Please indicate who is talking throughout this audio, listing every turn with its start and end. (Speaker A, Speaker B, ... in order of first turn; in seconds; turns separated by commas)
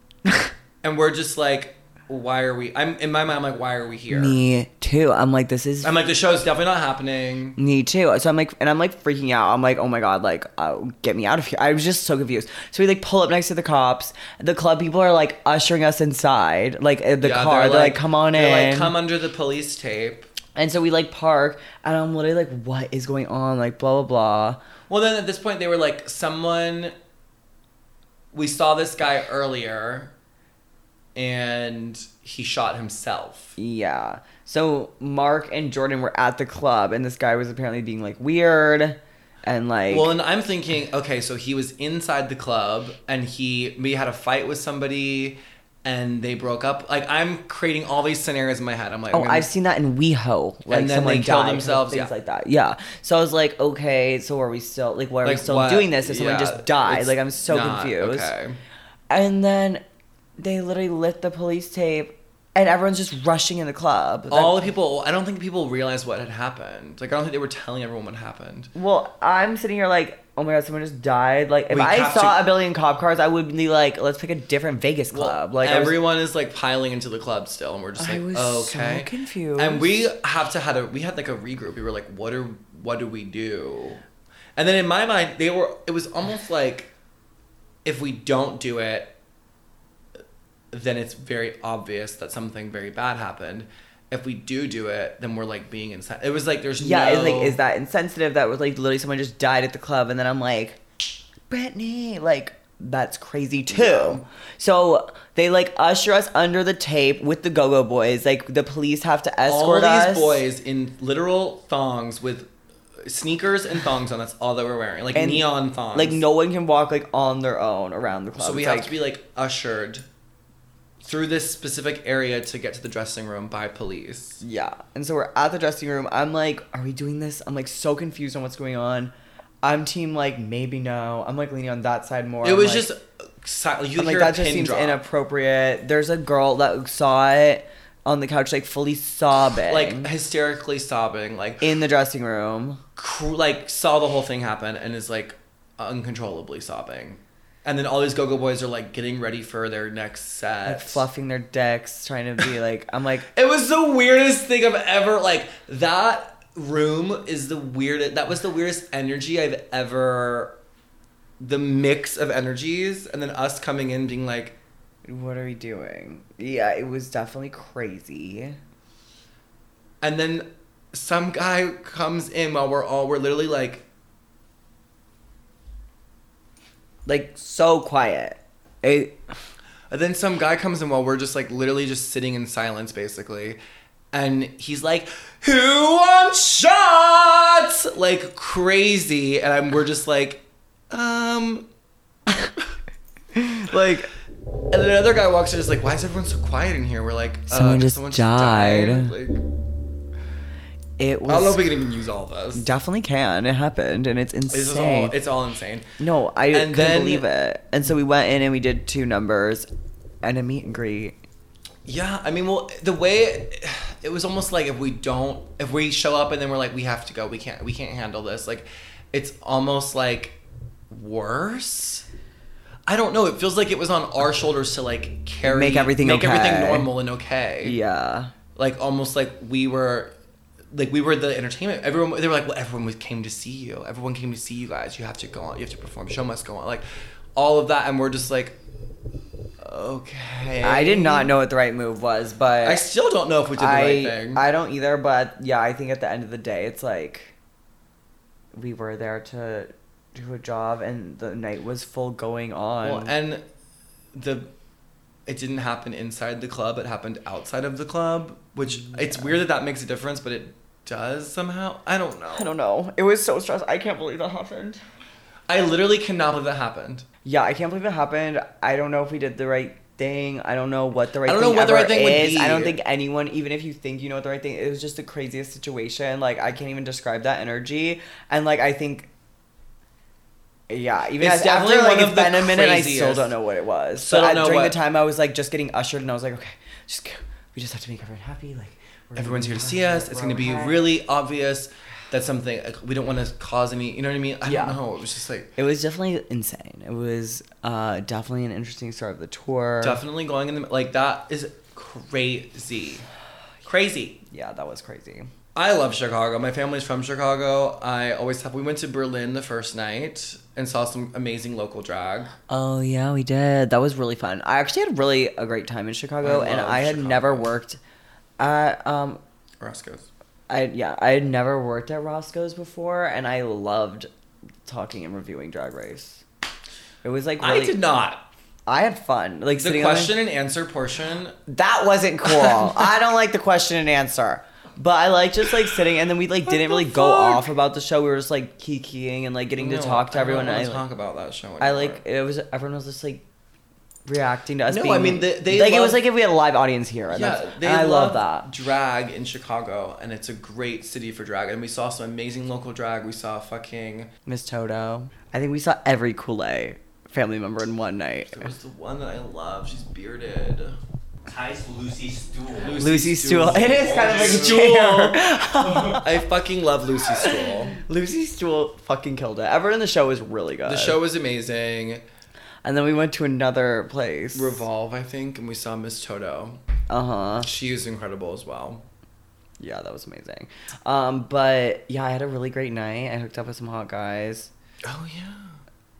Speaker A: 0.8-4.4, Speaker B: 4.1-6.0, Speaker A: 5.8-7.6, Speaker B: 7.6-18.9, Speaker A: 17.2-20.3, Speaker B: 20.6-24.6, Speaker A: 24.9-26.9, Speaker A: 28.3-30.1, Speaker A: 31.1-33.5, Speaker B: 33.6-40.1, Speaker A: 39.9-49.5, Speaker B: 49.1-58.3, Speaker A: 50.7-52.1, Speaker A: 55.2-58.6, Speaker B: 59.1-59.8, Speaker B: 60.4-64.7, Speaker A: 64.3-68.7, Speaker B: 68.7-76.0, Speaker A: 71.7-72.5, Speaker A: 75.1-84.0, Speaker B: 78.0-80.0, Speaker A: 84.5-86.9, Speaker A: 87.8-89.1, Speaker A: 90.7-97.6, Speaker B: 96.8-100.8, Speaker B: 101.5-110.4, Speaker A: 103.7-104.2, Speaker A: 109.5-112.5, Speaker A: 113.0-116.2, Speaker B: 115.1-118.9, Speaker A: 118.4-120.0, Speaker A: 121.0-124.4, Speaker B: 124.4-132.9, Speaker A: 132.4-135.0, Speaker B: 133.9-140.1, Speaker A: 139.4-141.7, Speaker B: 141.6-142.8, Speaker A: 143.0-151.1, Speaker B: 150.7-153.3, Speaker A: 153.3-160.5, Speaker A: 161.4-164.6, Speaker B: 165.0-168.6, Speaker A: 170.0-173.8, Speaker B: 177.0-179.2, Speaker A: 179.9-183.6, Speaker A: 184.1-191.7, Speaker B: 193.3-194.1, Speaker A: 193.7-194.0, Speaker A: 194.7-199.4, Speaker B: 197.5-199.1, Speaker B: 201.0-201.6, Speaker A: 201.2-202.7, Speaker B: 202.5-205.1, Speaker A: 204.5-205.9, Speaker B: 206.0-209.7, Speaker A: 206.5-207.2, Speaker B: 210.2-211.2, Speaker A: 211.8-220.4, Speaker A: 220.9-222.0, Speaker A: 222.9-227.8, Speaker B: 225.4-226.9, Speaker B: 227.6-228.3, Speaker A: 228.5-230.1, Speaker A: 230.7-238.6, Speaker A: 239.6-241.3, Speaker B: 240.6-242.8, Speaker A: 242.6-244.4, Speaker B: 243.6-247.3, Speaker B: 248.5-253.1, Speaker A: 252.8-253.4, Speaker A: 254.1-254.5, Speaker A: 255.3-262.5, Speaker B: 258.8-259.4, Speaker B: 262.3-264.8, Speaker A: 265.5-267.1, Speaker B: 267.2-279.1, Speaker A: 271.2-272.8, Speaker B: 280.7-290.9, Speaker A: 281.2-283.3, Speaker A: 284.0-284.8, Speaker A: 289.1-295.5, Speaker B: 294.4-294.8, Speaker B: 295.6-300.0, Speaker A: 299.8-303.0, Speaker A: 303.6-304.2, Speaker B: 304.3-305.3, Speaker A: 305.5-312.3, Speaker B: 312.5-317.8, Speaker A: 316.2-317.5, Speaker B: 318.4-319.2, Speaker A: 319.6-320.1, Speaker B: 320.5-324.1, Speaker B: 324.6-326.2, Speaker B: 327.0-327.8, Speaker A: 327.4-328.2, Speaker B: 328.7-330.1, Speaker A: 329.5-331.4, Speaker B: 331.5-340.8, Speaker A: 332.3-332.7, Speaker A: 336.4-337.4, Speaker A: 339.6-342.0, Speaker B: 341.6-343.2, Speaker B: 344.1-348.5, Speaker A: 344.7-346.0, Speaker A: 347.1-354.1, Speaker B: 354.2-358.5, Speaker A: 358.3-360.8, Speaker C: 361.2-364.6, Speaker A: 362.6-365.2, Speaker B: 362.8-366.0, Speaker C: 365.6-366.0, Speaker A: 365.9-367.8, Speaker B: 367.0-371.0, Speaker A: 370.6-372.0, Speaker B: 372.6-374.6, Speaker A: 374.3-376.6, Speaker B: 376.9-377.5, Speaker A: 377.4-378.8, Speaker B: 379.6-384.5, Speaker A: 384.8-385.6